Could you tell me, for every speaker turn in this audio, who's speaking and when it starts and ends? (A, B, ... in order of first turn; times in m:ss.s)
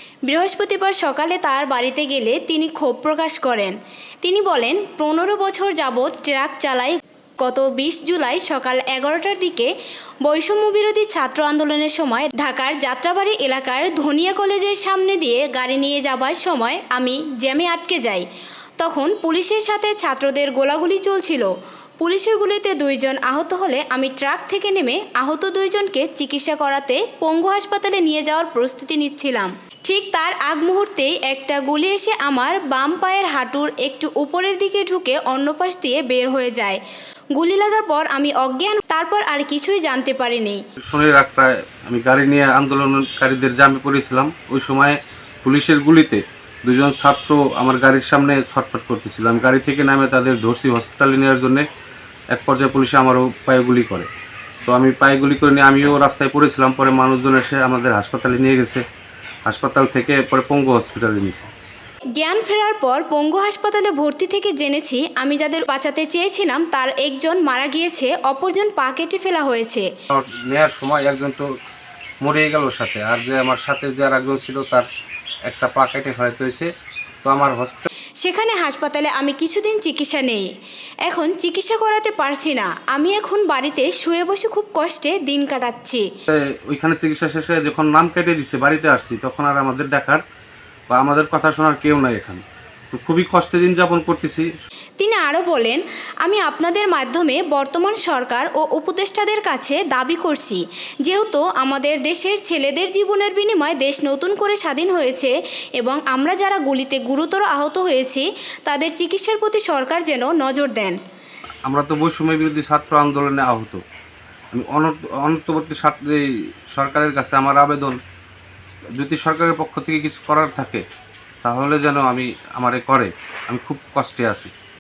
0:00.3-0:09.7 A
0:10.2-0:18.2 A
0:18.8-0:36.8 A
0:37.4-0:40.6 A
0:40.8-0:51.6 B
0:52.3-0:54.1 B
0:54.6-0:58.8 B
0:59.4-1:01.5 B
1:02.2-1:09.9 A
1:10.1-1:11.5 B
1:12.2-1:14.9 B
1:15.5-1:16.7 B
1:17.2-1:17.8 B
1:18.2-1:20.5 A
1:21.0-1:26.1 A
1:26.3-1:30.2 B
1:30.9-1:34.5 B
1:35.0-1:51.0 A
1:51.7-1:53.8 B
1:54.5-1:58.0 B
1:59.0-2:00.8 B
2:01.4-2:04.5 B